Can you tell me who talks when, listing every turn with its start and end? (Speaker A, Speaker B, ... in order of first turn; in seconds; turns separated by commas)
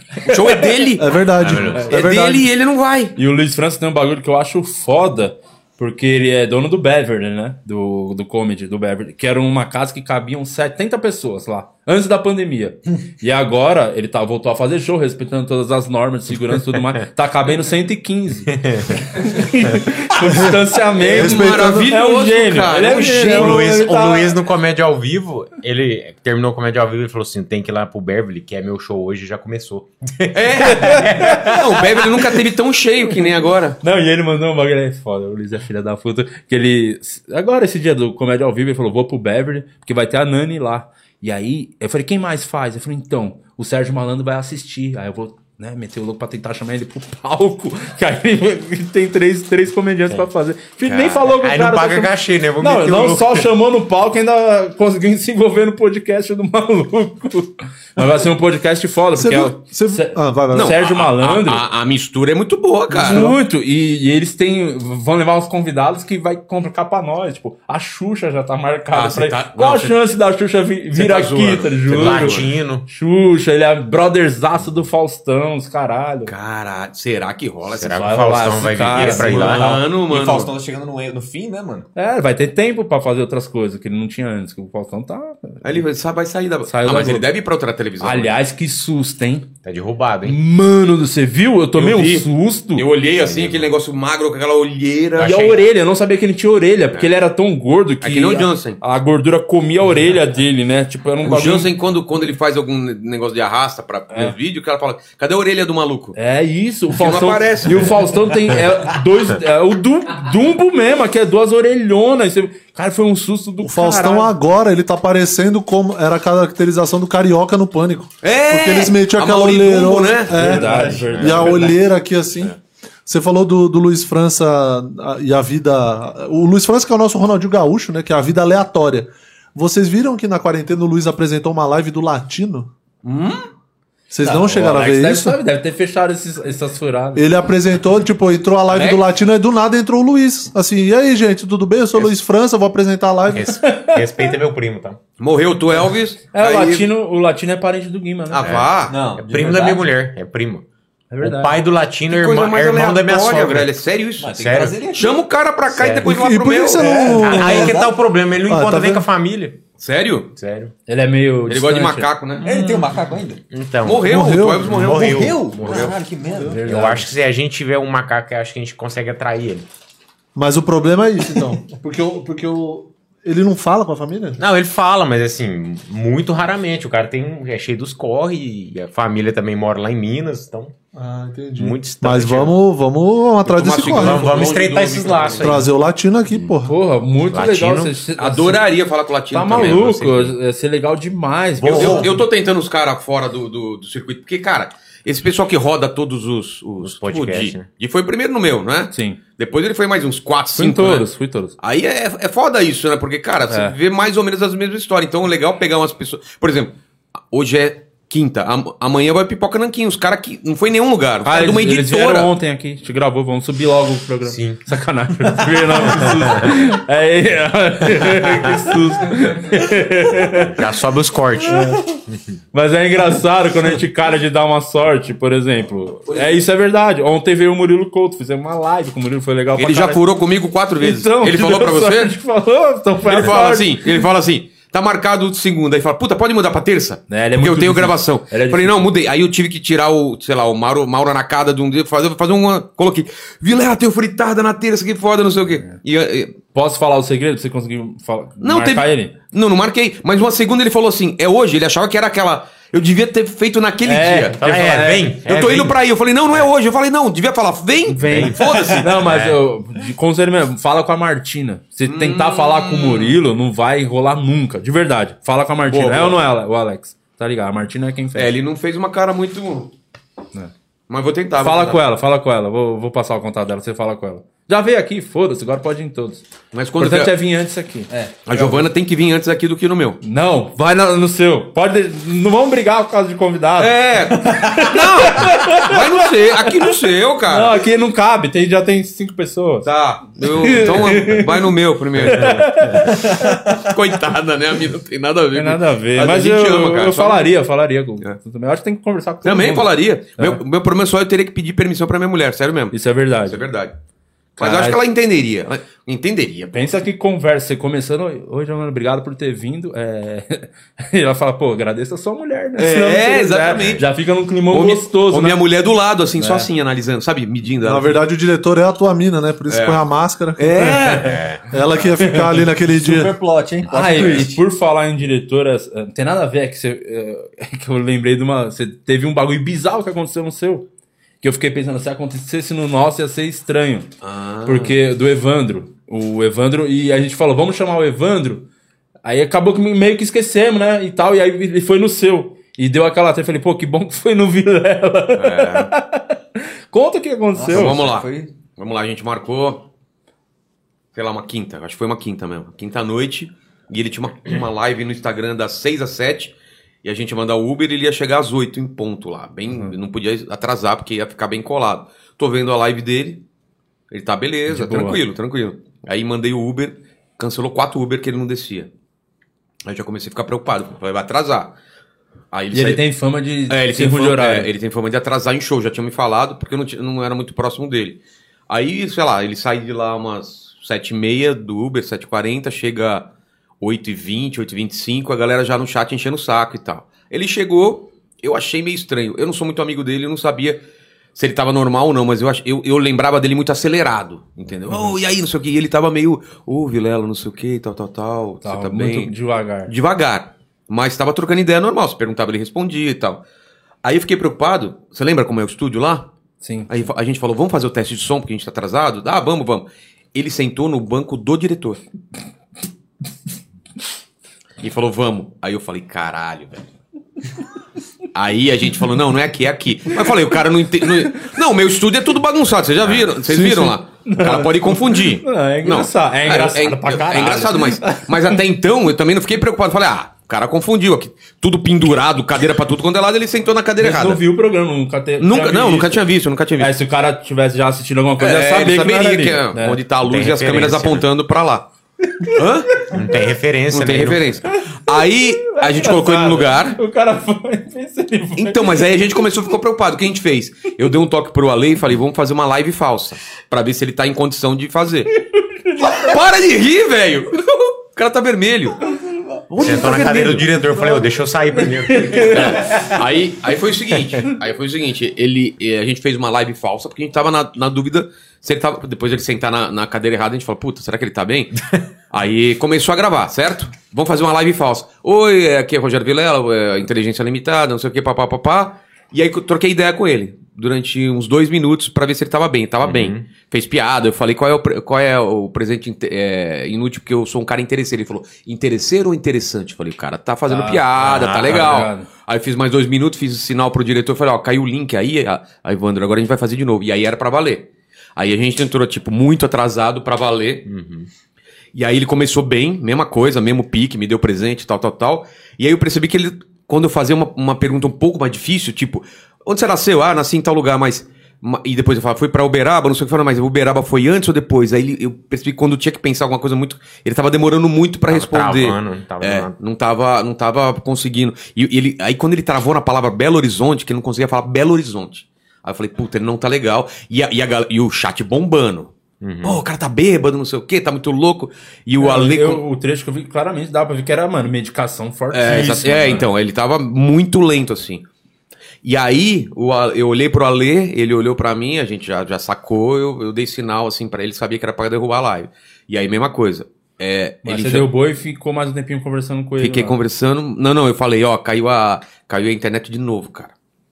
Speaker A: 0.2-3.1, Speaker B: 0.2-0.8, Speaker C: 1.0-2.5, Speaker D: 1.4-2.0, Speaker B: 3.1-24.3, Speaker D: 18.5-19.0, Speaker A: 21.0-23.8, Speaker C: 21.0-21.9, Speaker D: 23.0-32.3, Speaker A: 30.3-33.8, Speaker B: 30.7-31.6, Speaker B: 33.8-61.6, Speaker A: 50.9-51.2, Speaker D: 51.2-53.5, Speaker C: 59.1-60.8, Speaker A: 60.5-63.3, Speaker C: 62.9-63.4, Speaker B: 62.9-76.3, Speaker A: 68.9-70.0, Speaker A: 70.9-72.5, Speaker D: 71.9-72.8, Speaker A: 76.3-80.5, Speaker D: 77.7-79.8, Speaker B: 77.9-79.7, Speaker E: 79.6-81.9, Speaker B: 82.0-85.8, Speaker A: 85.6-88.3, Speaker B: 86.7-87.3, Speaker B: 88.0-89.5, Speaker D: 89.6-90.4, Speaker B: 90.2-92.9, Speaker A: 91.8-95.5, Speaker D: 93.1-93.7, Speaker D: 95.2-95.6, Speaker B: 95.2-101.7, Speaker A: 98.0-98.8, Speaker A: 101.2-106.2, Speaker B: 106.2-114.3, Speaker A: 106.9-108.1, Speaker C: 113.6-122.5, Speaker A: 118.2-120.8, Speaker B: 120.3-121.8, Speaker D: 120.8-121.6, Speaker C: 123.0-132.7, Speaker A: 133.0-133.5, Speaker C: 134.1-135.4, Speaker B: 134.2-137.2, Speaker C: 137.2-143.5, Speaker A: 138.7-139.0, Speaker D: 143.3-145.0, Speaker B: 143.5-144.3, Speaker A: 145.2-146.9, Speaker B: 146.3-148.5, Speaker A: 148.3-149.0, Speaker D: 148.4-150.6, Speaker E: 148.9-149.9, Speaker B: 151.1-151.6, Speaker D: 151.2-153.7, Speaker A: 152.1-157.0, Speaker E: 154.2-155.1, Speaker D: 154.3-154.8, Speaker D: 155.7-156.1, Speaker C: 156.0-157.9, Speaker E: 156.8-157.9, Speaker D: 157.0-159.6, Speaker C: 158.5-159.0, Speaker A: 159.8-160.3, Speaker D: 160.3-160.7, Speaker B: 160.9-162.1, Speaker A: 161.5-162.5, Speaker E: 162.4-163.4, Speaker C: 162.4-162.8, Speaker D: 163.5-166.0, Speaker A: 163.8-166.0, Speaker C: 164.0-164.7, Speaker E: 164.8-166.6, Speaker B: 166.4-167.1, Speaker D: 166.6-169.7, Speaker C: 170.3-174.4, Speaker D: 174.4-180.7, Speaker C: 180.9-184.4, Speaker D: 181.6-182.6, Speaker A: 183.4-185.6, Speaker D: 183.7-185.7, Speaker C: 185.4-186.7, Speaker B: 186.6-188.6, Speaker D: 187.3-188.0, Speaker A: 188.2-189.9, Speaker B: 189.3-192.1, Speaker D: 189.5-190.3, Speaker D: 191.6-192.2, Speaker A: 191.7-206.8, Speaker D: 196.8-197.7, Speaker B: 198.9-199.2, Speaker B: 200.6-201.6, Speaker B: 203.5-203.7, Speaker A: 207.3-212.3, Speaker B: 211.2-220.6, Speaker D: 214.2-214.6, Speaker D: 216.1-216.5, Speaker D: 220.4-221.7, Speaker B: 221.4-221.9, Speaker B: 222.5-230.0, Speaker A: 229.6-232.2, Speaker B: 230.8-233.9, Speaker A: 233.1-246.4, Speaker B: 237.1-238.9, Speaker B: 246.5-249.1, Speaker A: 248.4-254.4, Speaker B: 253.8-255.1, Speaker D: 254.4-255.8, Speaker A: 255.2-259.3, Speaker B: 257.9-268.3, Speaker D: 258.1-259.3, Speaker A: 261.9-263.2, Speaker A: 265.7-266.2, Speaker A: 268.1-269.7, Speaker A: 270.9-271.8, Speaker B: 271.4-276.2, Speaker A: 276.5-277.1, Speaker B: 276.8-277.9, Speaker E: 277.9-278.6, Speaker A: 278.2-280.0, Speaker B: 280.0-286.3, Speaker A: 283.6-287.6, Speaker B: 287.3-289.7, Speaker A: 289.6-297.3, Speaker B: 290.2-291.4, Speaker B: 292.0-293.4, Speaker B: 295.3-300.4, Speaker A: 299.2-303.7, Speaker B: 302.7-303.4, Speaker B: 304.4-304.8, Speaker A: 304.4-306.7, Speaker B: 306.5-315.4, Speaker A: 312.6-313.9, Speaker D: 313.6-313.8, Speaker A: 314.5-318.0, Speaker B: 316.2-316.5, Speaker C: 317.6-323.2, Speaker A: 319.5-319.8, Speaker A: 320.4-321.4, Speaker E: 322.1-324.4, Speaker B: 323.7-330.7, Speaker B: 331.2-333.9, Speaker A: 334.0-334.8, Speaker B: 334.4-338.5, Speaker B: 339.1-347.8, Speaker A: 345.2-345.7, Speaker E: 347.4-348.3, Speaker A: 347.5-349.6, Speaker A: 350.9-356.3, Speaker A: 356.8-363.2, Speaker A: 363.9-368.7, Speaker B: 364.5-365.0, Speaker A: 369.6-371.5, Speaker A: 372.3-372.8, Speaker B: 372.5-374.5, Speaker A: 373.5-383.1, Speaker A: 383.6-390.6, Speaker A: 391.1-399.1, Speaker B: 398.4-399.7, Speaker A: 399.7-403.2, Speaker A: 403.8-406.1, Speaker B: 406.4-406.9, Speaker A: 406.7-411.8, Speaker A: 414.6-416.6, Speaker A: 418.1-434.2, Speaker B: 423.4-428.4, Speaker B: 433.8-436.0, Speaker A: 435.2-436.7, Speaker B: 436.6-439.8, Speaker A: 438.2-441.7, Speaker D: 440.0-441.1, Speaker A: 442.3-442.9, Speaker D: 442.9-444.4, Speaker A: 443.7-446.8, Speaker B: 445.4-448.9, Speaker A: 448.4-455.1, Speaker B: 455.3-456.2, Speaker A: 455.8-458.8, Speaker B: 459.5-460.9, Speaker A: 459.5-460.5, Speaker D: 459.6-462.9, Speaker B: 461.6-462.9, Speaker A: 462.2-500.7, Speaker D: 482.8-483.2, Speaker B: 490.5-490.9, Speaker D: 491.0-491.8, Speaker B: 491.4-492.1, Speaker D: 500.6-501.1, Speaker A: 501.7-528.9, Speaker D: 518.1-519.5, Speaker D: 529.2-529.6, Speaker A: 529.4-532.6, Speaker B: 532.0-536.3, Speaker A: 535.3-538.0, Speaker A: 538.8-547.9, Speaker B: 547.4-550.0, Speaker A: 549.6-553.5